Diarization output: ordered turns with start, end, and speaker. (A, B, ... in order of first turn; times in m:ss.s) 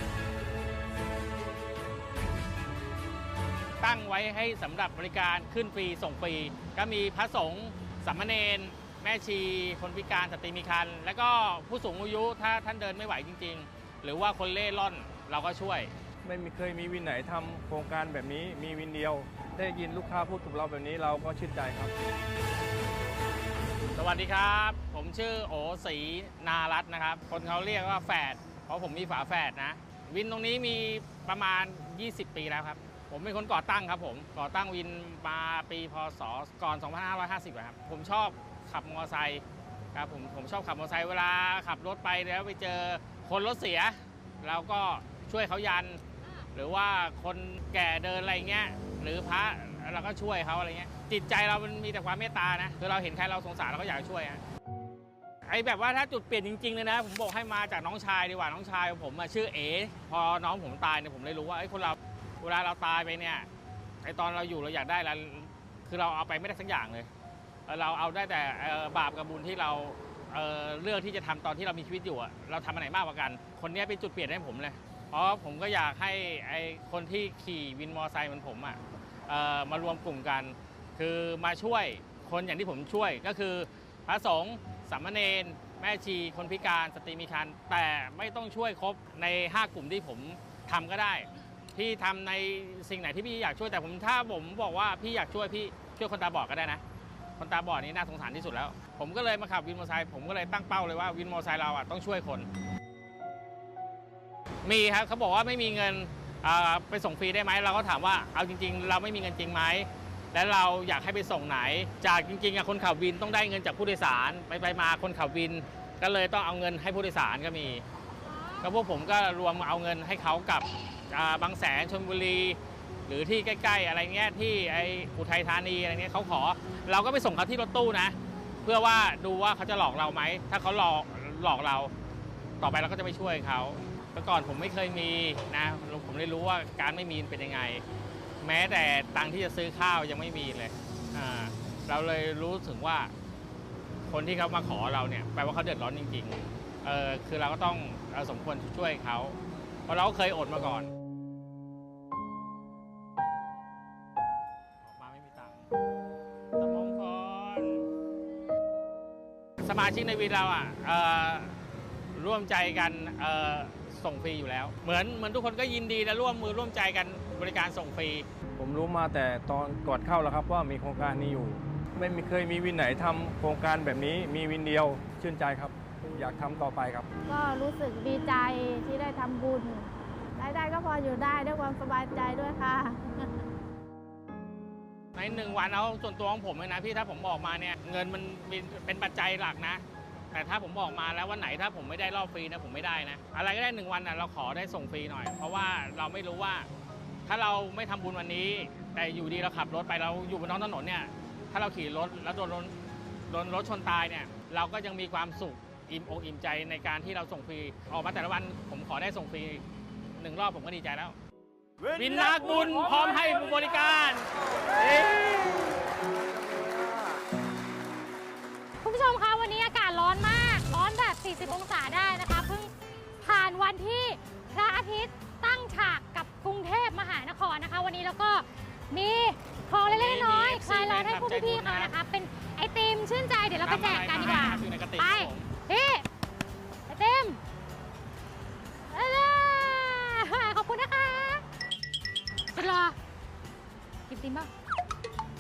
0:03.8-0:15.9 A
0:16.2-0:21.9 B
0:24.0-0:39.4 A
0:40.0-0:46.0 A
0:46.6-0:54.4 A
0:55.5-1:03.5 A
1:04.0-1:07.1 A
1:07.7-1:36.8 A
1:37.4-1:42.5 A
1:44.6-1:57.8 A
1:58.3-1:58.7 C
1:58.6-2:11.9 A
2:12.6-2:17.8 A
2:18.4-2:23.1 A
2:24.1-2:29.4 A
2:29.9-2:30.9 A
2:34.8-2:35.7 A
2:36.6-2:37.9 A
2:39.6-2:41.6 A
2:42.2-2:48.3 A
2:48.6-2:57.1 B
2:57.3-3:03.4 D
3:05.2-3:09.8 A
3:10.3-3:16.7 A
3:17.3-3:22.7 A
3:23.3-3:29.6 A
3:30.2-3:31.2 A
3:31.9-3:35.7 A
3:38.8-3:42.7 C
3:43.2-3:56.0 C
3:49.9-3:51.9 A
3:53.6-3:55.5 A
3:56.9-3:57.4 C
3:58.9-4:01.4 C
4:02.6-4:03.0 C
4:04.1-4:04.5 C